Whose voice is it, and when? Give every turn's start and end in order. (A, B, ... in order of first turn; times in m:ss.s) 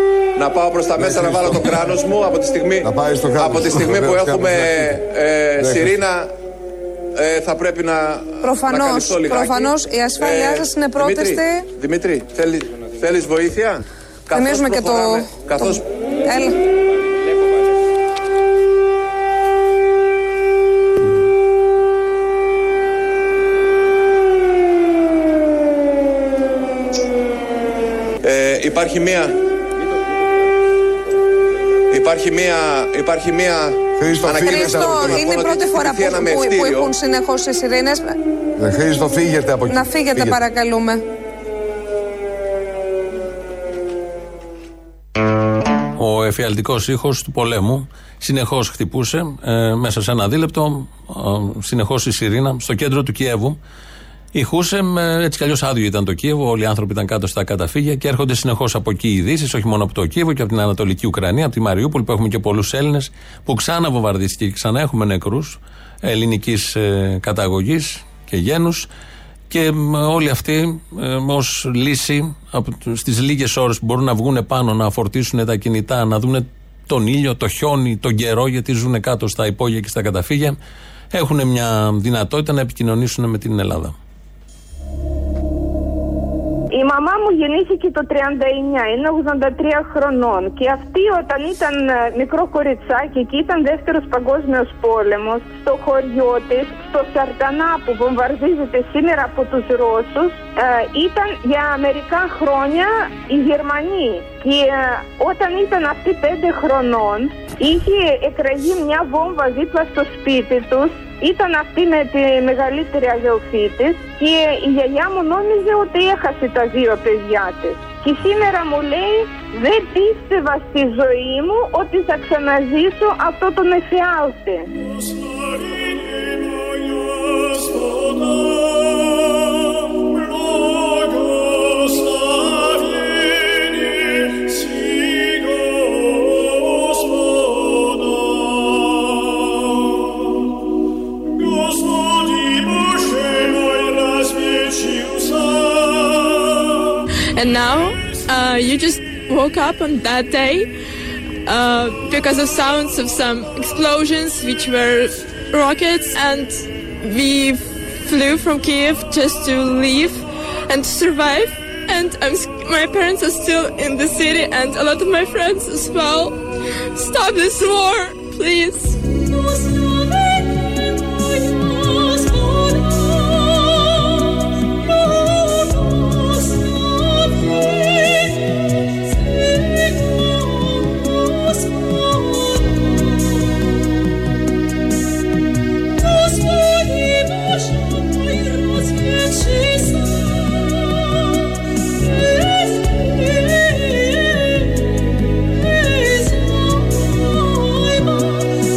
0:00.4-0:06.3 A
0:01.0-0:01.9 B
0:02.8-0:04.9 B
0:05.6-0:06.1 B
0:07.2-0:15.8 A
0:08.4-0:11.7 C
0:14.3-0:16.6 C
0:28.2-0:29.4 A
0:31.9-0:36.9 A
0:34.0-0:34.9 B
0:34.3-0:38.1 C
0:38.6-0:40.4 B
0:39.6-0:41.0 C
0:46.0-0:53.6 D
0:54.3-1:08.9 D
1:09.5-1:20.6 D
1:21.1-1:24.0 D
1:26.7-2:04.7 E
2:27.4-2:30.7 F
2:31.4-2:49.0 F